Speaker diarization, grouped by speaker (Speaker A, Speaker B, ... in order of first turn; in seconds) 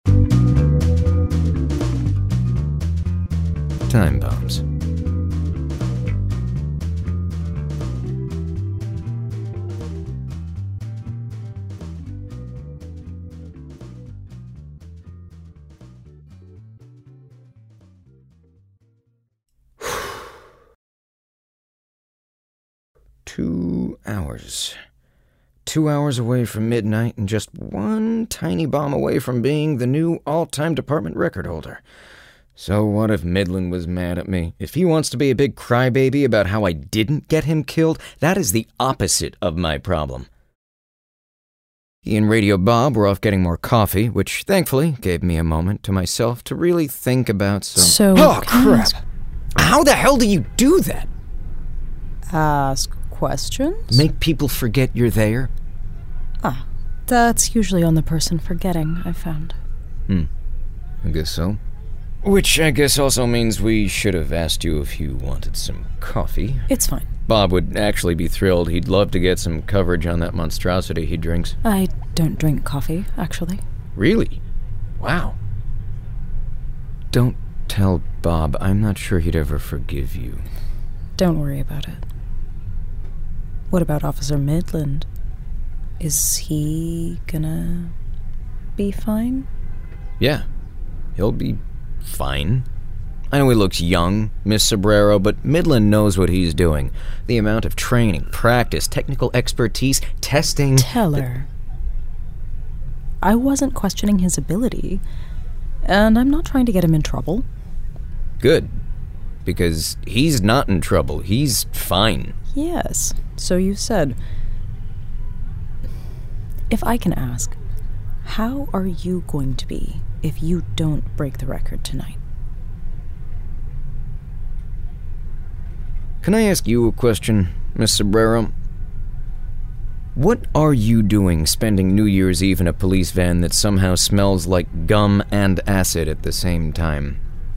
Speaker A: 3.9-4.6, 23.2-24.8, 25.7-31.8, 32.6-40.3, 42.0-49.0, 49.6-51.1, 53.9-55.5, 61.0-61.6, 62.2-66.7, 67.3-71.6, 74.0-74.4, 75.0-75.4, 77.1-80.5, 90.2-90.5, 91.2-92.7, 93.3-101.2, 108.4-108.7, 109.5-112.3, 126.2-128.5, 130.2-137.2
Speaker B: 47.8-49.0, 52.3-54.0, 56.4-59.6, 66.7-67.1, 71.6-73.6, 81.2-82.0, 83.7-85.1, 86.0-87.9, 88.8-89.5, 100.8-101.5, 103.2-105.0, 105.8-107.5, 112.5-114.2, 116.7-117.6, 118.2-122.2